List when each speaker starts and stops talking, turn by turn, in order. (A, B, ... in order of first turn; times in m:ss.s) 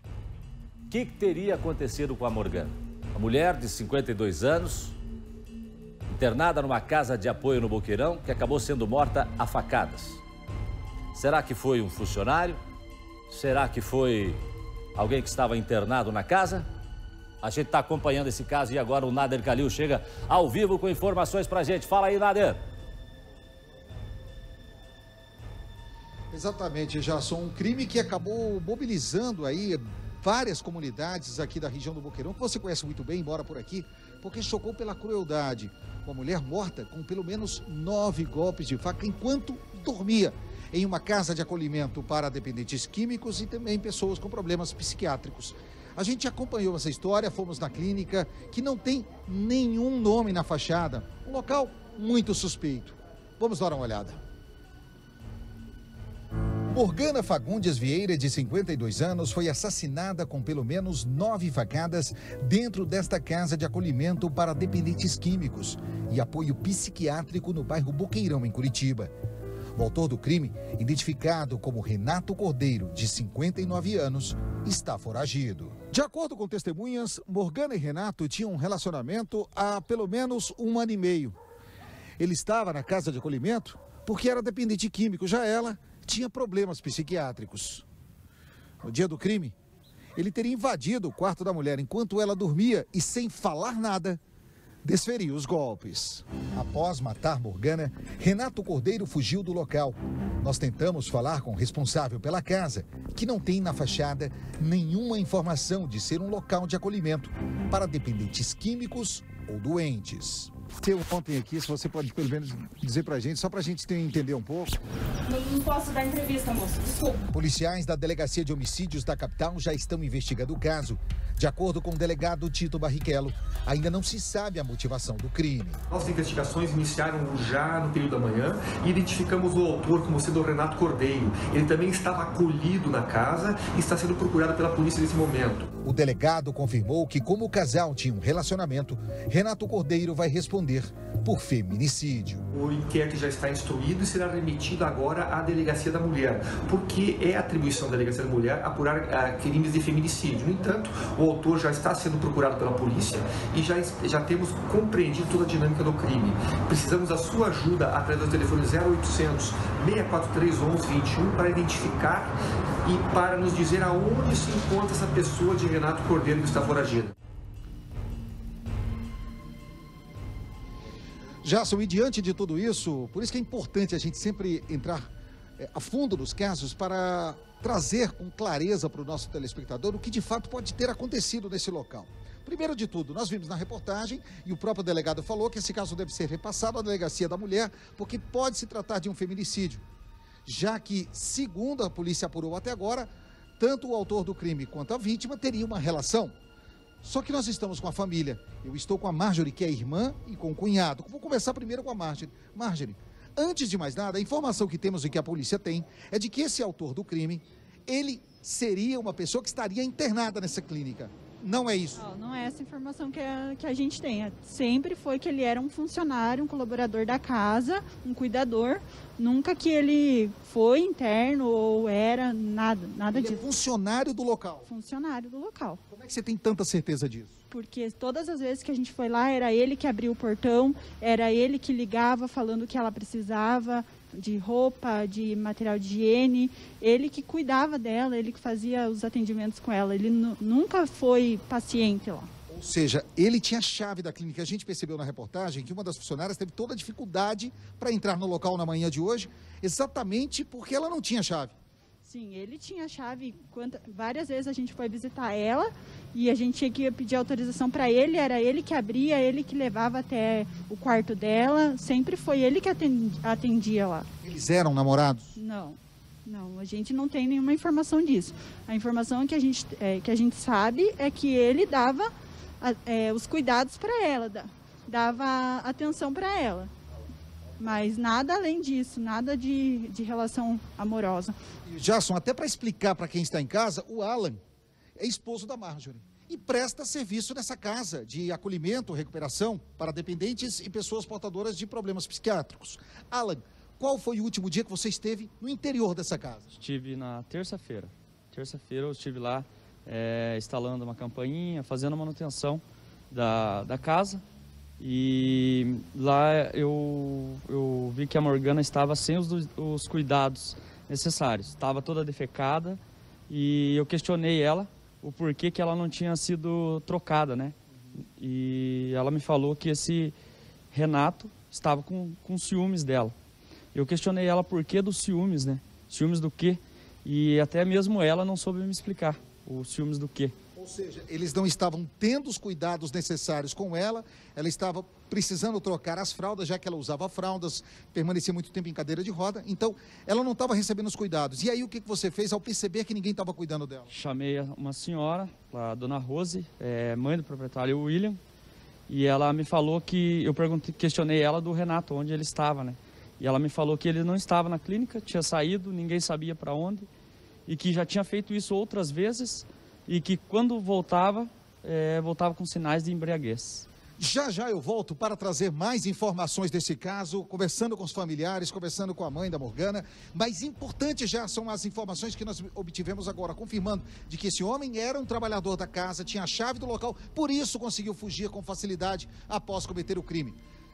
0:00.9-0:04.9 A
0:06.1-0:10.2 A
0:11.1-0:12.6 A
0:13.3-0:14.4 A
0:14.9-0:16.6 A
0:17.4-0:22.6 A
0:26.3-0:54.2 B
0:56.7-1:09.1 B
1:09.8-1:21.4 B
1:22.2-1:27.8 B
1:28.8-1:29.5 B
1:30.2-1:34.2 B
1:34.8-1:54.8 B
1:55.2-1:57.2 C
1:57.3-2:05.8 B
2:05.9-2:15.7 D
2:15.8-2:22.4 B
2:22.5-2:42.3 D
2:42.8-2:47.1 D
2:51.4-3:09.8 B
3:10.4-3:16.3 B
3:17.0-3:32.0 B
3:32.0-3:43.4 E
3:43.1-3:44.7 B
3:44.7-3:45.8 E
3:45.9-3:47.4 B
3:47.5-4:02.3 E
4:02.5-4:11.5 B
4:12.0-4:24.1 E
4:24.2-4:25.4 B
4:25.4-4:32.1 E
4:32.6-4:36.7 E
4:37.6-4:41.3 E
4:41.6-4:44.4 B
4:45.0-4:56.4 B
4:56.5-5:04.2 F
5:04.8-5:17.6 F
5:18.1-5:20.1 F
5:20.7-5:23.1 F
5:23.7-5:30.3 F
5:30.5-5:43.9 B
5:43.9-5:48.2 F
5:48.9-5:56.9 F
5:57.4-6:03.6 F
6:04.0-6:20.4 B